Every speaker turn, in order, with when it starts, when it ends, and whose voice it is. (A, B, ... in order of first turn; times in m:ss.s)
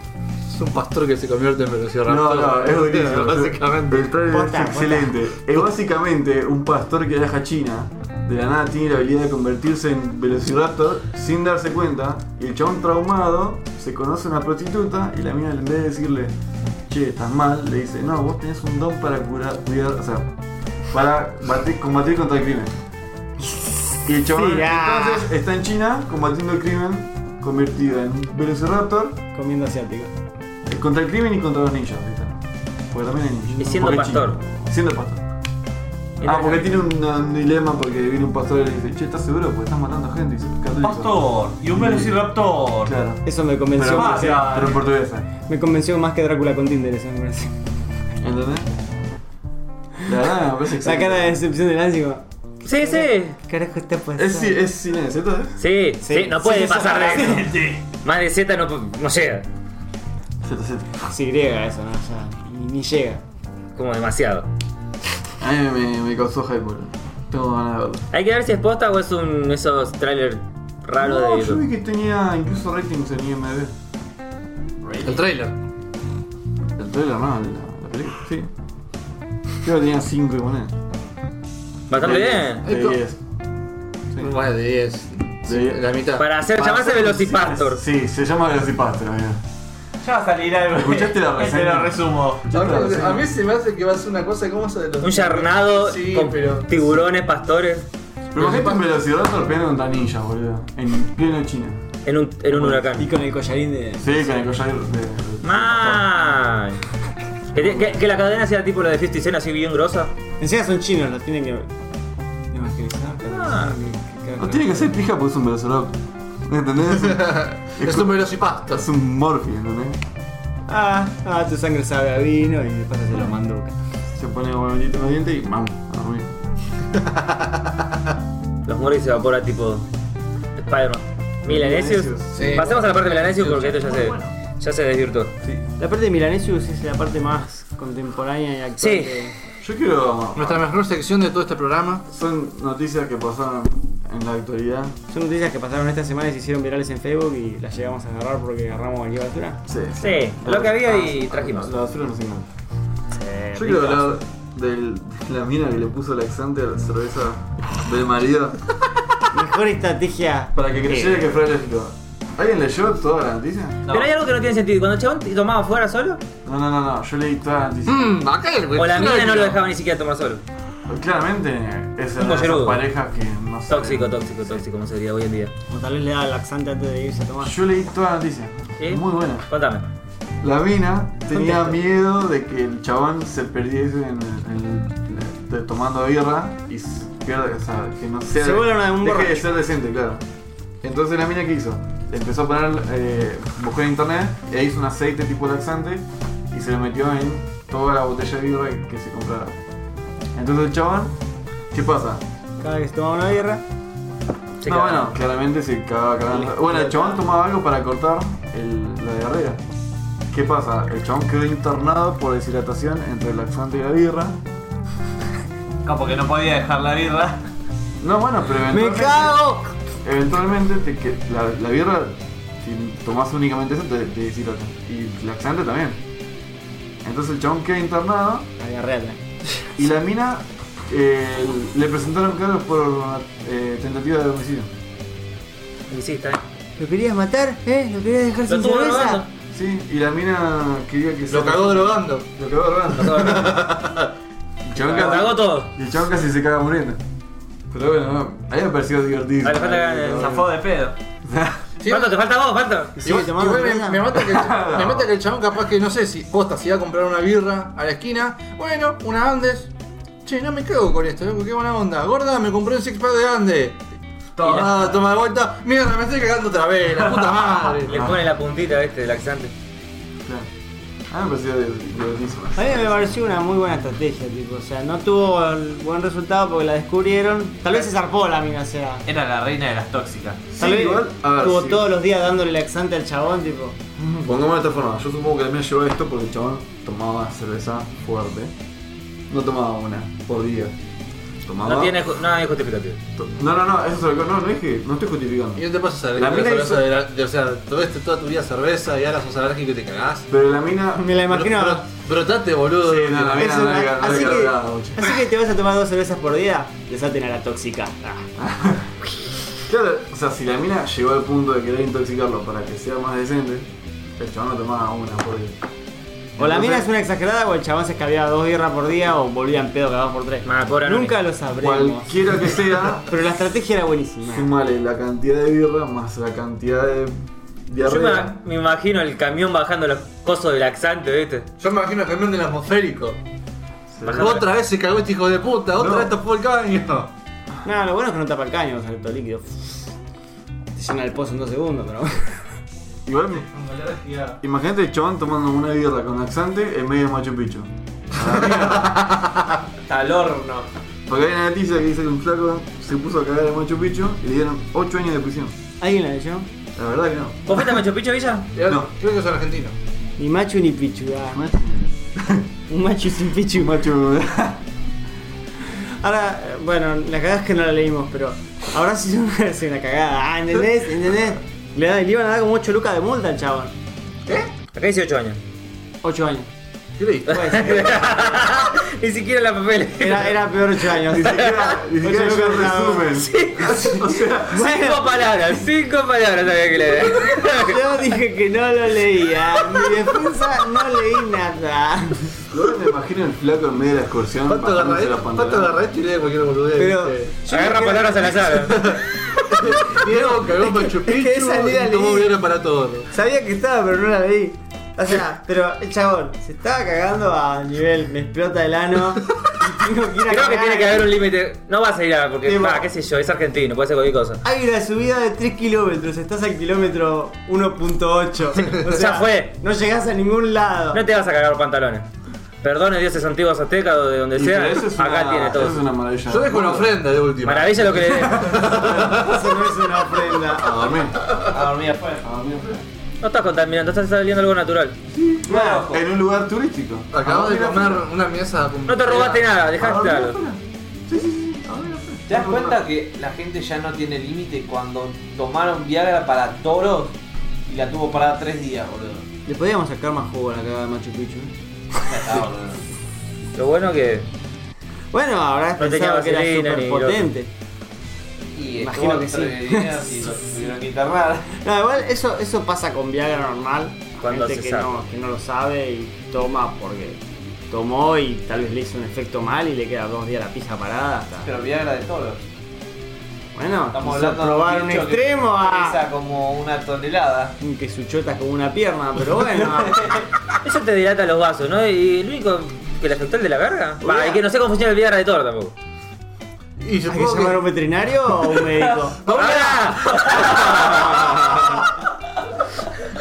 0:00.4-0:04.1 A
0:02.0-0:16.3 B
0:04.3-0:05.2 C
0:16.9-0:20.3 B
0:20.9-0:22.7 B
0:24.0-0:29.2 B
0:24.3-0:25.3 C
0:29.3-0:30.1 C
0:30.7-0:32.4 B
0:32.9-0:35.2 B
0:33.6-0:34.4 D
0:36.2-0:36.8 D
0:36.2-0:41.1 B
0:40.7-0:42.9 E
0:41.7-0:42.2 B
0:42.8-0:43.2 B
0:43.2-0:44.6 C
0:43.8-0:45.3 B
0:43.9-0:44.8 E
0:45.4-0:47.5 C
0:48.2-0:48.7 B
0:50.0-0:51.4 B
0:50.8-0:52.2 C
0:52.6-0:53.4 D
0:52.7-0:54.6 C
0:54.2-0:55.6 B
0:55.6-0:57.5 D
0:56.0-0:57.7 C
0:57.0-0:57.8 E
0:58.0-0:59.4 D
1:00.4-1:01.0 B
1:01.0-1:03.2 C
1:03.8-1:04.5 D
1:05.4-1:08.0 B
1:08.1-1:11.6 D
1:11.0-1:13.7 B
1:14.8-1:15.2 E
1:15.0-1:15.6 A
1:16.8-1:18.5 B
1:19.6-1:20.7 B
1:21.9-1:22.7 D
1:21.9-1:23.2 B
1:22.6-1:23.0 A
1:24.2-1:26.3 A
1:25.4-1:25.8 B
1:26.2-1:27.8 D
1:26.5-1:29.4 B
1:30.0-1:32.4 E
1:30.7-1:33.3 B
1:32.5-1:37.0 A
1:35.0-1:37.8 D
1:38.3-1:41.8 B
1:38.4-1:39.0 A
1:42.0-1:43.1 D
1:42.5-1:44.3 C
1:44.0-1:46.1 B
1:45.4-1:46.8 D
1:47.5-1:50.1 D
1:47.6-1:47.9 B
1:50.4-1:51.7 C
1:52.5-1:54.9 C
1:53.2-1:53.7 D
1:54.4-2:00.0 B
1:56.9-1:58.9 A
2:00.7-2:03.7 C
2:04.1-2:06.3 B
2:08.6-2:09.8 D
2:10.6-2:15.3 D
2:11.4-2:12.8 B
2:12.3-2:14.3 A
2:15.8-2:19.3 C
2:18.8-2:19.2 D
2:19.6-2:20.6 B
2:20.3-2:22.0 A
2:22.1-2:25.0 B
2:25.1-2:29.6 C
2:29.6-2:32.5 B
2:30.0-2:31.7 D
2:33.1-2:34.1 C
2:33.6-2:38.7 B
2:39.3-2:41.3 C
2:40.5-2:43.8 B
2:43.8-2:44.1 E
2:43.9-2:46.2 D
2:46.4-2:48.1 B
2:47.8-2:49.6 A
2:48.7-2:50.4 D
2:50.9-2:54.2 B
2:52.2-2:52.8 D
2:53.7-2:55.5 D
2:55.7-2:57.5 C
2:57.4-2:59.5 B
2:58.8-2:59.8 D
3:00.4-3:10.2 B
3:01.3-3:01.8 C
3:08.3-3:09.5 C
3:10.8-3:19.6 B
3:20.3-3:21.2 B
3:21.7-3:22.2 B
3:22.6-3:23.6 C
3:24.6-3:25.1 D
3:24.6-3:29.6 B
3:26.3-3:27.2 C
3:30.3-3:34.4 B
3:35.8-3:37.4 E
3:38.0-3:39.4 B
3:38.7-3:39.7 C
3:40.0-3:46.0 B
3:47.0-3:48.5 B
3:48.6-3:49.2 C
3:49.8-3:54.7 B
3:55.9-3:56.4 D
3:56.8-3:59.2 C
3:58.5-3:59.3 D
3:59.5-4:03.6 B
4:01.3-4:02.2 A
4:03.0-4:04.1 A
4:03.2-4:03.4 D
4:04.6-4:07.0 B
4:04.8-4:05.7 D
4:07.7-4:10.5 B
4:09.4-4:10.4 D
4:10.1-4:11.0 E
4:11.2-4:11.6 B
4:11.8-4:12.1 A
4:11.8-4:13.1 D
4:13.0-4:14.1 C
4:13.0-4:19.7 A
4:14.1-4:15.1 B
4:20.2-4:23.8 A
4:24.4-4:28.1 A
4:24.4-4:24.7 B
4:27.8-4:29.5 D
4:31.1-4:33.1 B
4:32.5-4:39.0 C
4:39.0-4:40.4 E
4:40.5-4:41.9 B
4:40.6-4:43.8 C
4:44.0-4:48.5 B
4:49.3-4:50.7 B
4:51.4-4:52.0 B
4:51.6-4:53.0 D
4:53.2-4:56.8 B
4:55.6-5:00.3 A
5:00.3-5:01.1 B
5:01.0-5:01.8 C
5:01.3-5:03.6 A
5:02.8-5:05.2 B
5:03.2-5:08.2 C
5:08.4-5:08.9 B
5:09.6-5:15.6 B
5:16.4-5:16.8 B
5:16.4-5:24.5 C
5:20.4-5:21.2 D
5:21.6-5:23.1 B
5:24.3-5:27.1 B
5:27.7-5:28.4 B
5:27.8-5:31.5 D
5:31.6-5:33.2 A
5:33.9-5:34.4 B
5:34.0-5:34.4 D
5:34.1-5:37.1 A
5:35.8-5:36.1 B
5:37.6-5:39.8 C
5:40.7-5:42.4 C
5:43.0-5:43.5 B
5:43.5-5:44.4 A
5:44.4-5:49.2 B
5:48.5-5:49.0 A
5:49.9-5:50.7 E
5:51.1-5:55.5 B
5:55.8-5:56.5 C
5:56.8-5:57.7 B
5:57.5-5:58.5 D
5:58.5-5:59.8 A
5:58.6-5:58.9 B
6:00.2-6:01.4 C
6:01.3-6:02.4 B
6:02.7-6:03.8 C
6:03.6-6:04.6 B
6:05.7-6:13.7 C
6:14.2-6:14.5 A
6:14.7-6:15.4 D
6:16.0-6:16.5 C
6:17.0-6:17.3 A
6:17.3-6:20.4 D
6:17.3-6:18.4 C
6:20.0-6:23.2 C
6:21.1-6:24.6 B
6:21.2-6:21.7 D
6:23.2-6:27.8 D
6:24.5-6:25.1 C
6:27.3-6:32.4 C
6:32.5-6:35.7 B
6:34.4-6:37.4 A
6:36.8-6:38.4 C
6:37.4-6:39.0 D
6:38.4-6:43.1 A
6:40.6-6:42.3 C
6:43.1-6:51.1 C
6:50.3-6:54.4 D
6:52.4-6:52.9 C
6:54.4-7:01.0 C
6:58.6-6:59.5 D
7:00.9-7:02.0 D
7:02.6-7:05.8 D
7:04.3-7:06.9 B
7:06.2-7:09.6 A
7:07.4-7:08.7 D
7:08.6-7:10.8 C
7:10.4-7:11.4 B
7:11.4-7:12.2 E
7:12.2-7:12.8 B
7:13.2-7:15.0 D
7:15.1-7:18.0 B
7:15.5-7:15.8 C
7:15.5-7:16.0 E
7:17.1-7:19.5 A
7:18.9-7:20.4 D
7:19.7-7:22.8 B
7:22.3-7:27.2 E
7:27.7-7:29.3 E
7:29.4-7:31.5 C
7:32.0-7:32.8 E
7:33.5-7:34.3 D
7:35.1-7:37.5 C
7:35.8-7:37.3 D
7:38.5-7:41.6 E
7:38.8-7:40.2 C
7:41.6-7:51.5 C
7:44.2-7:45.0 D
7:51.4-7:52.4 E
7:53.5-7:56.0 C
7:53.9-7:57.6 E
7:57.6-8:00.1 C
7:59.6-8:00.2 E
8:00.6-8:05.7 D
8:04.0-8:04.4 C
8:06.8-8:07.6 A
8:07.1-8:09.2 C
8:09.2-8:11.6 A
8:09.2-8:11.7 D
8:10.1-8:10.9 E